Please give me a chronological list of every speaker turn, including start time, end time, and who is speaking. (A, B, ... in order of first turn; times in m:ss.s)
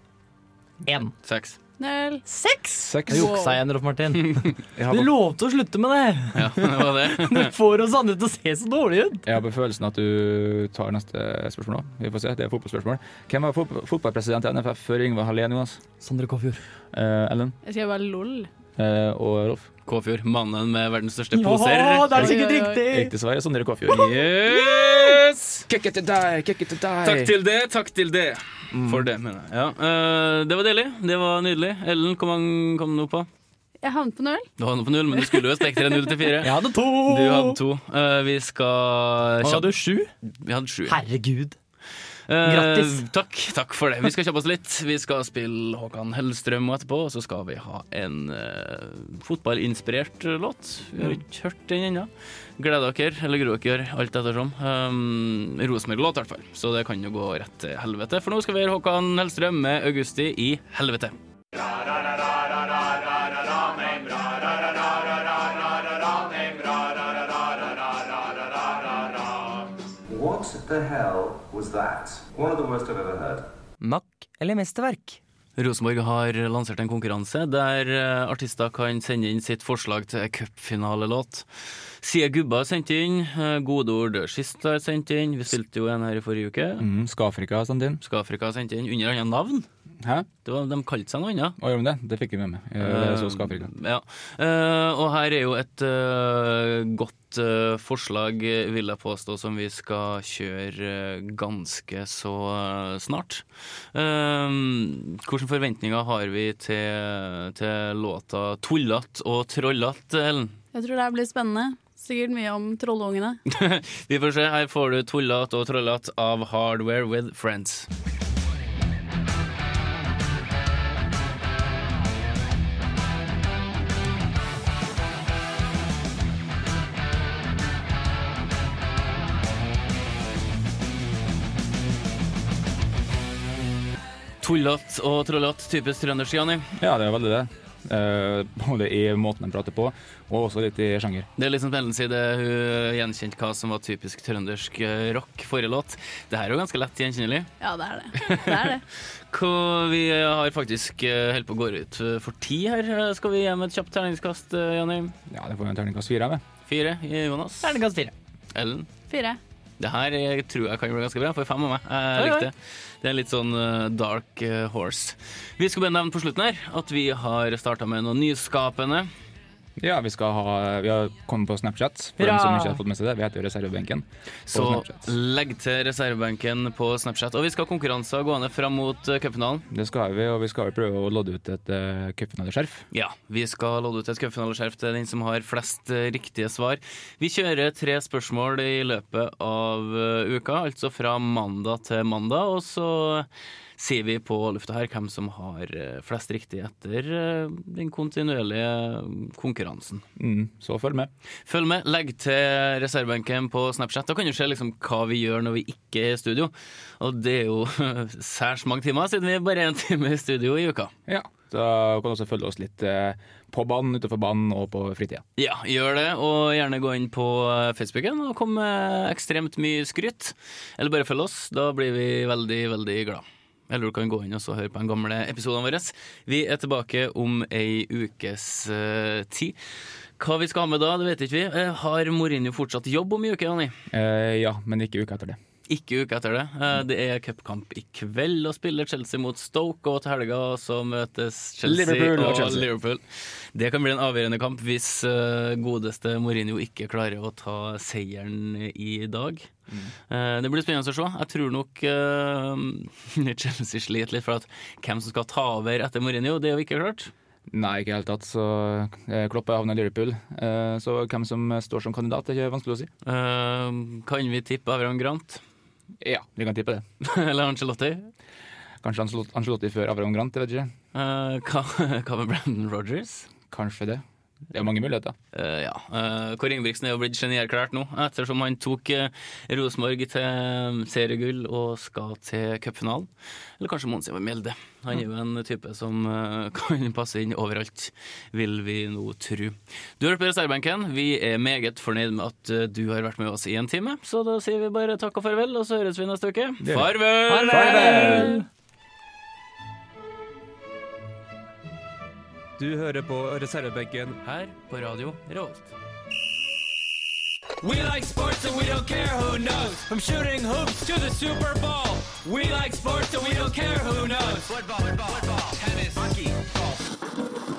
0:00.8-0:01.1 A
0:01.2-0:01.6 B
0:01.8-0:02.2 C
0:02.3-0:09.2 A
0:02.8-0:03.4 D
0:03.1-0:03.6 C
0:04.8-0:05.1 D
0:06.3-0:07.5 B
0:09.3-0:15.8 D
0:16.0-0:16.6 A
0:16.9-0:17.6 D
0:17.6-0:18.5 C
0:18.8-0:19.7 D
0:19.9-0:22.3 B
0:21.3-0:23.1 A
0:22.1-0:22.8 C
0:22.9-0:24.1 D
0:23.9-0:25.6 B
0:25.7-0:27.3 D
0:27.0-0:33.3 B
0:28.7-0:29.1 D
0:33.8-0:34.5 C
0:34.6-0:39.7 B
0:36.4-0:37.6 A
0:39.4-0:40.1 A
0:40.3-0:41.0 B
0:40.9-0:41.6 A
0:42.3-1:01.2 B
0:42.4-0:43.0 A
1:03.6-1:05.5 B
1:10.2-1:13.3 E
1:10.2-1:13.4 F
1:13.8-1:15.2 A
1:15.6-1:21.5 B
1:22.0-1:26.8 B
1:26.8-1:28.0 D
1:28.0-1:29.7 B
1:30.0-1:30.3 D
1:30.4-1:31.6 B
1:31.6-1:33.7 D
1:32.8-1:50.6 B
1:50.7-1:53.4 C
1:53.5-1:57.9 B
2:14.4-2:16.7 B
2:16.8-2:21.3 D
2:21.4-2:27.5 B
2:27.6-2:28.8 C
2:28.2-2:28.8 B
2:29.3-2:35.1 B
2:35.3-2:36.4 D
2:36.7-2:37.8 B
2:37.6-2:38.1 A
2:38.5-2:38.9 B
2:39.1-2:39.4 C
2:39.8-2:49.1 B
2:42.2-2:42.5 A
2:49.8-2:55.1 D
2:52.2-2:52.8 A
2:54.5-2:59.7 B
2:59.7-3:02.8 D
3:02.9-3:20.0 B
3:20.2-3:21.1 D
3:21.5-3:30.9 B
3:31.1-3:35.2 D
3:35.4-3:49.6 B
3:50.2-3:53.8 B
3:53.9-3:55.4 D
3:55.7-4:09.5 B
4:01.6-4:02.7 D
4:09.7-4:09.9 D
4:10.1-4:17.1 B
4:17.5-4:22.9 D
4:23.0-4:25.4 B
4:26.0-4:26.8 D
4:27.0-4:28.1 B
4:28.8-4:30.7 D
4:30.9-4:33.3 B
4:33.5-4:35.2 D
4:35.3-4:58.4 B
4:56.6-4:58.4 D
4:57.3-4:58.5 A
5:02.6-5:04.2 D
5:02.6-5:03.1 E
5:04.2-5:05.7 B
5:07.6-5:09.2 E
5:08.4-5:11.4 B
5:09.8-5:14.6 E
5:14.5-5:16.4 B